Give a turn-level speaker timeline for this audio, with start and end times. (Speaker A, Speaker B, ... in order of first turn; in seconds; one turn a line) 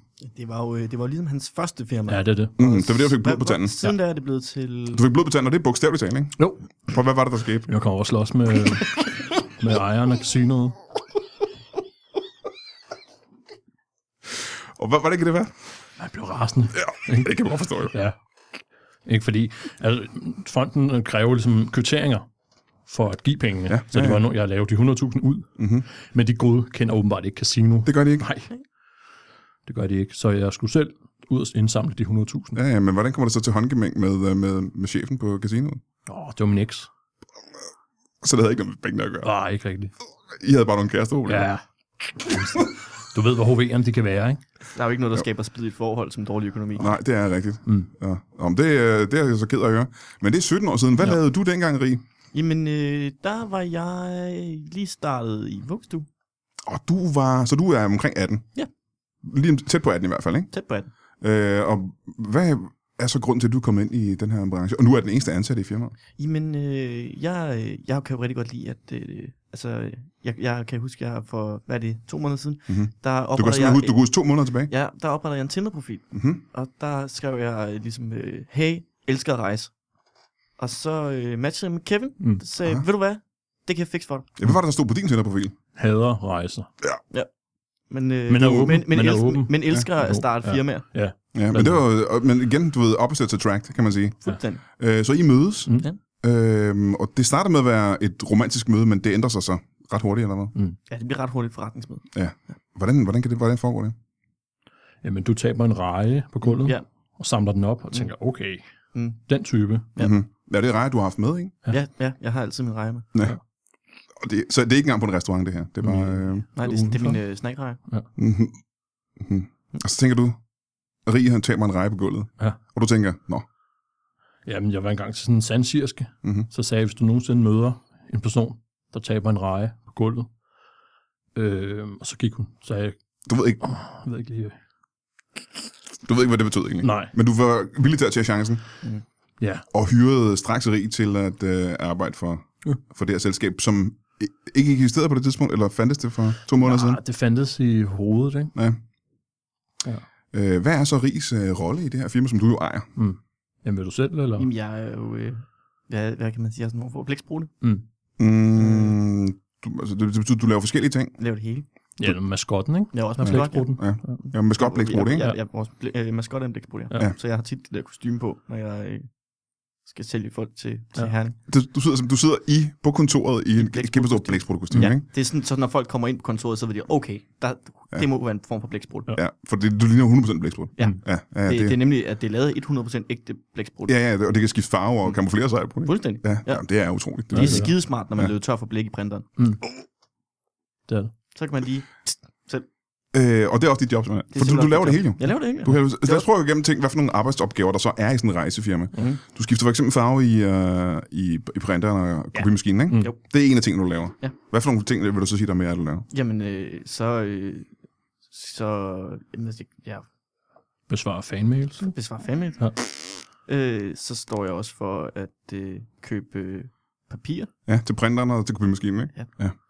Speaker A: 0.2-5.0
Speaker B: 2.1-2.5
Speaker C: 2.6-3.8
Speaker C: 4.9-7.7
Speaker B: 7.7-10.8
Speaker C: 14.8-15.5
Speaker B: 16.0-17.4
Speaker C: 16.7-17.9
Speaker B: 17.9-18.1
Speaker B: 19.1-22.2
Speaker B: 22.9-28.5
Speaker C: 23.7-24.2
Speaker C: 25.6-25.9
Speaker C: 27.8-28.3
Speaker B: 29.7-32.6
Speaker C: 32.5-35.8
Speaker B: 36.0-36.9
Speaker C: 38.2-39.3
Speaker B: 39.2-39.9
Speaker C: 40.3-41.5
Speaker B: 41.3-41.6
Speaker B: 42.1-44.4
Speaker A: 44.7-47.0
Speaker C: 46.8-52.0
Speaker A: 52.3-56.1
Speaker C: 56.6-58.5
Speaker C: 59.2-60.5
Speaker A: 60.5-60.9
Speaker C: 61.2-65.9
Speaker A: 66.2-74.0
Speaker C: 72.7-74.7
Speaker A: 74.7-79.7
Speaker C: 76.1-76.4
Speaker A: 80.6-84.3
Speaker C: 84.4-85.5
Speaker B: 85.8-86.7
Speaker A: 87.9-90.9
Speaker B: 88.3-91.8
Speaker C: 91.3-100.5
Speaker A: 94.2-94.6
Speaker A: 100.9-102.1
Speaker C: 102.1-103.9
Speaker B: 105.0-108.6
Speaker A: 106.4-106.8
Speaker B: 109.3-109.9
Speaker C: 110.0-111.5
Speaker A: 111.7-113.1
Speaker C: 114.2-116.5
Speaker B: 115.8-117.2
Speaker A: 116.5-117.8
Speaker C: 118.2-118.6
Speaker C: 119.2-120.4
Speaker C: 121.0-123.4
Speaker B: 124.5-130.3
Speaker B: 131.3-132.9
Speaker C: 133.3-133.6
Speaker B: 133.6-134.6
Speaker C: 136.0-138.6
Speaker B: 136.8-137.1
Speaker B: 139.4-139.7
Speaker C: 139.7-147.0
Speaker B: 146.6-148.5
Speaker C: 150.3-152.9
Speaker B: 152.9-154.5
Speaker A: 154.4-157.5
Speaker C: 158.2-161.2
Speaker A: 158.6-159.0
Speaker A: 161.2-161.7
Speaker B: 162.0-164.2
Speaker A: 162.9-163.7
Speaker C: 163.2-165.2
Speaker A: 164.2-169.1
Speaker A: 169.8-171.4
Speaker C: 171.5-175.1
Speaker A: 173.6-179.1
Speaker C: 179.1-181.8
Speaker A: 180.8-183.9
Speaker C: 183.9-188.3
Speaker A: 185.8-186.6
Speaker A: 187.3-189.3
Speaker B: 187.3-187.7
Speaker B: 190.9-191.1
Speaker A: 191.3-192.7
Speaker C: 193.1-206.1
Speaker A: 194.3-196.3
Speaker A: 198.9-199.2
Speaker A: 206.1-207.7
Speaker A: 208.3-210.1
Speaker B: 210.9-211.9
Speaker A: 211.8-217.5
Speaker C: 217.7-219.5